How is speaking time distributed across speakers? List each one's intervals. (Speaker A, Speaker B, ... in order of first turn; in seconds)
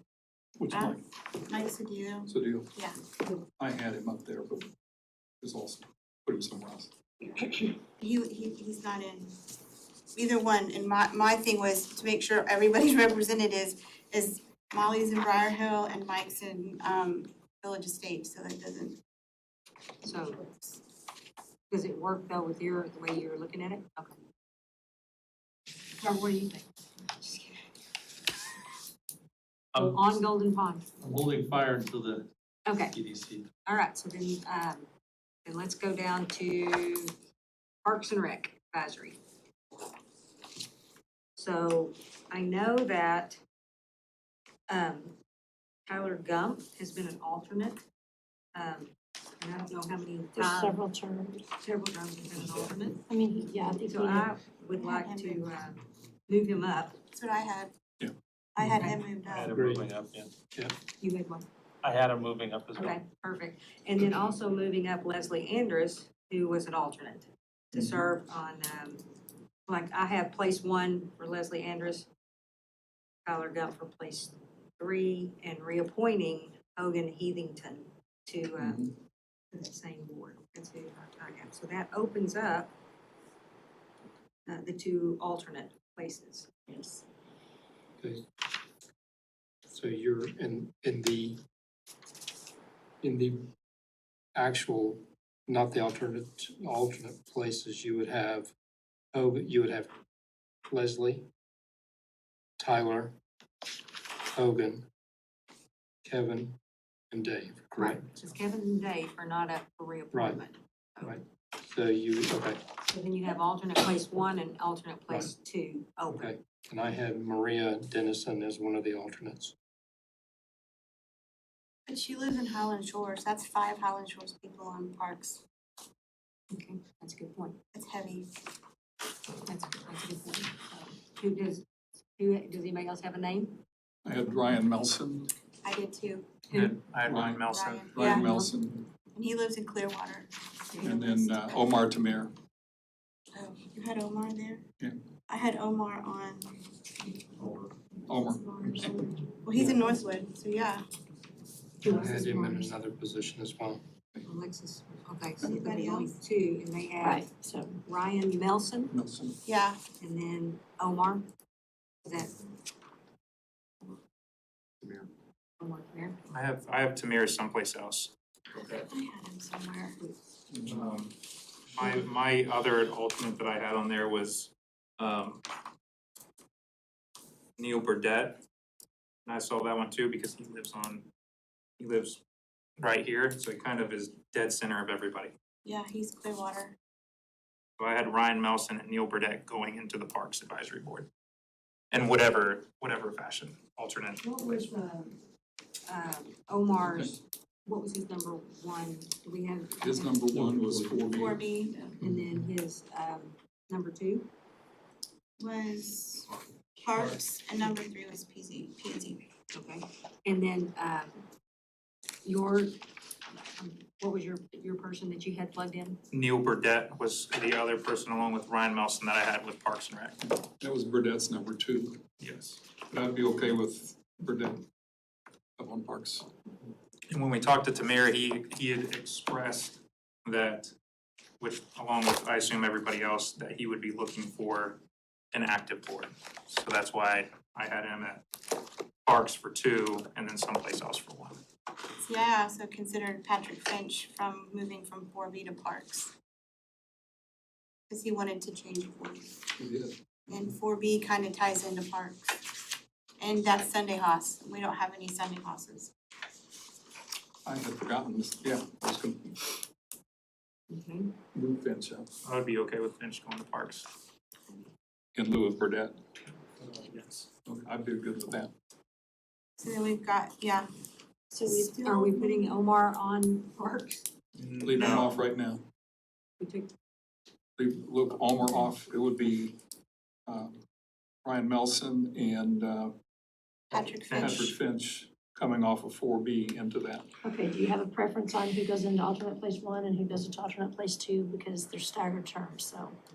Speaker A: 0.6-1.0, 2.3-2.7, 3.6-4.7, 5.4-6.9, 134.1-135.3, 137.1-138.8, 140.8-142.3, 148.1-149.1, 158.9-159.4, 170.5-170.8, 199.8-201.4, 220.4-222.0, 222.8-224.7, 225.6-226.3, 249.6-250.0, 257.4-259.6, 261.3-262.1, 265.1-266.0, 267.5-268.5, 274.6-275.6, 277.6-279.6, 280.3-280.6, 281.2-282.9, 284.2-287.1
Speaker B: 0.7-3.0, 7.2-9.3, 10.2-19.0, 27.2-27.5, 54.8-55.5, 57.1-57.7, 58.5-59.5, 121.9-125.4, 127.7-128.3, 135.6-136.3, 137.3-138.3, 139.2-141.7, 143.3-144.6, 145.3-146.7, 148.1-150.8, 155.4-156.2, 159.4-159.8, 168.9-170.0, 185.7-186.8, 201.1-202.0, 205.4-209.2, 242.0-246.1, 247.9-249.4, 250.3-252.6, 253.2-255.9, 269.6-270.7, 271.4-272.6, 283.7-284.5
Speaker C: 20.0-20.4, 21.7-24.2, 26.0-26.7, 29.8-30.9, 32.7-33.0, 33.6-34.9, 35.5-37.1, 37.9-39.2, 41.4-43.4, 44.7-45.1, 45.9-47.8, 48.5-50.8, 51.6-53.0, 53.7-57.0, 61.0-61.5, 62.7-69.0, 69.7-72.1, 73.3-78.9, 79.5-82.7, 84.5-87.0, 107.8-111.2, 112.9-116.3, 126.5-127.6, 129.4-131.6, 132.2-133.6, 136.5-136.8, 138.0-138.5, 151.8-152.7, 154.2-157.3, 157.8-158.9, 160.0-161.3, 162.1-162.3, 165.6-166.2, 194.2-195.2, 195.9-200.2, 202.0-204.3, 209.5-211.2, 212.2-212.8, 213.6-216.0, 260.7-261.1, 271.8-274.1, 276.4-276.7
Speaker D: 31.0-32.3, 32.9-33.5, 59.3-60.3, 61.8-62.9
Speaker E: 50.4-51.5, 53.1-54.3, 151.9-152.6, 157.0-157.8, 271.3-271.8, 287.2-293.0
Speaker F: 58.6-58.9, 59.5-60.0, 89.7-91.4, 93.0-93.5, 94.3-98.5, 99.1-99.9, 100.7-101.3, 102.6-103.1, 104.3-104.8, 106.0-106.5, 107.1-108.0, 110.1-110.4, 111.0-112.6, 116.1-119.5, 151.8-153.8
Speaker G: 136.5-137.9, 166.3-168.9, 170.6-171.1, 171.7-175.4, 177.6-178.4, 179.2-181.1, 181.8-182.2, 182.8-185.3, 187.8-191.1, 191.9-194.3, 216.1-220.2, 222.2-222.6, 227.1-230.7, 231.4-234.8, 235.3-238.2, 239.1-241.4, 262.2-263.9, 266.6-267.3, 274.4-275.1, 284.1-284.5